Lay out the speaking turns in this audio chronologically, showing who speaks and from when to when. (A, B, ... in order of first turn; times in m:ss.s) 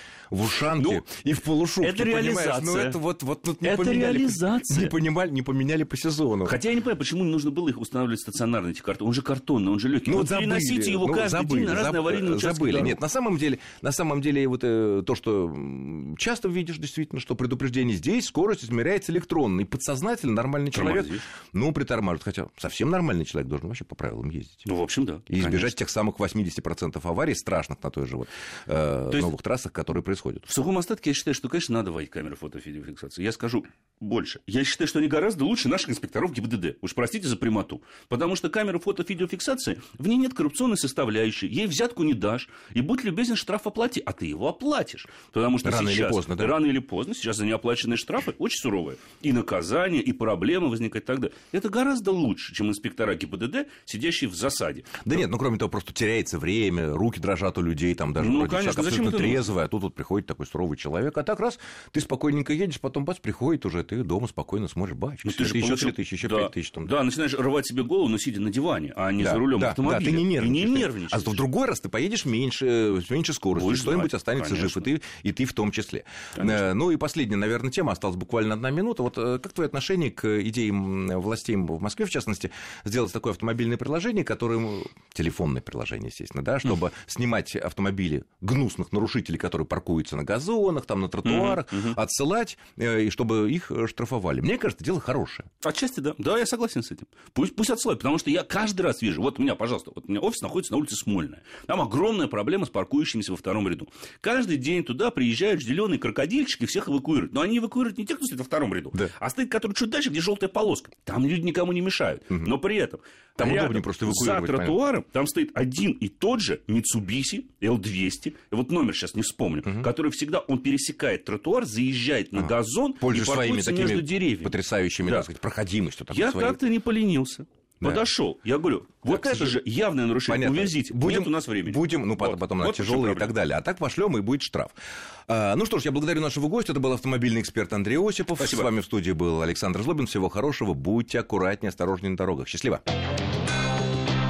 0:00.3-0:06.6 A
0:00.7-0:01.0 B
0:01.8-0:03.0 B
0:03.6-0:04.9 B
0:06.4-0:13.0 B
0:10.1-0:24.7 A
0:20.7-0:21.2 B
0:24.7-0:25.8 B
0:25.3-0:30.5 A
0:30.5-0:55.1 B
0:45.6-0:46.6 A
0:55.0-1:06.9 A
0:58.2-0:59.5 B
1:05.2-1:11.4 B
1:09.2-1:35.5 A
1:13.6-1:14.9 B
1:16.4-1:16.7 B
1:31.2-1:32.0 B
1:35.6-2:05.3 B
1:52.3-1:52.6 A
1:53.4-1:54.8 A
1:59.6-1:59.9 A
2:02.4-2:06.6 A
2:06.1-2:13.4 B
2:09.1-2:09.6 A
2:10.2-2:14.8 A
2:15.3-2:22.8 A
2:18.4-2:18.7 B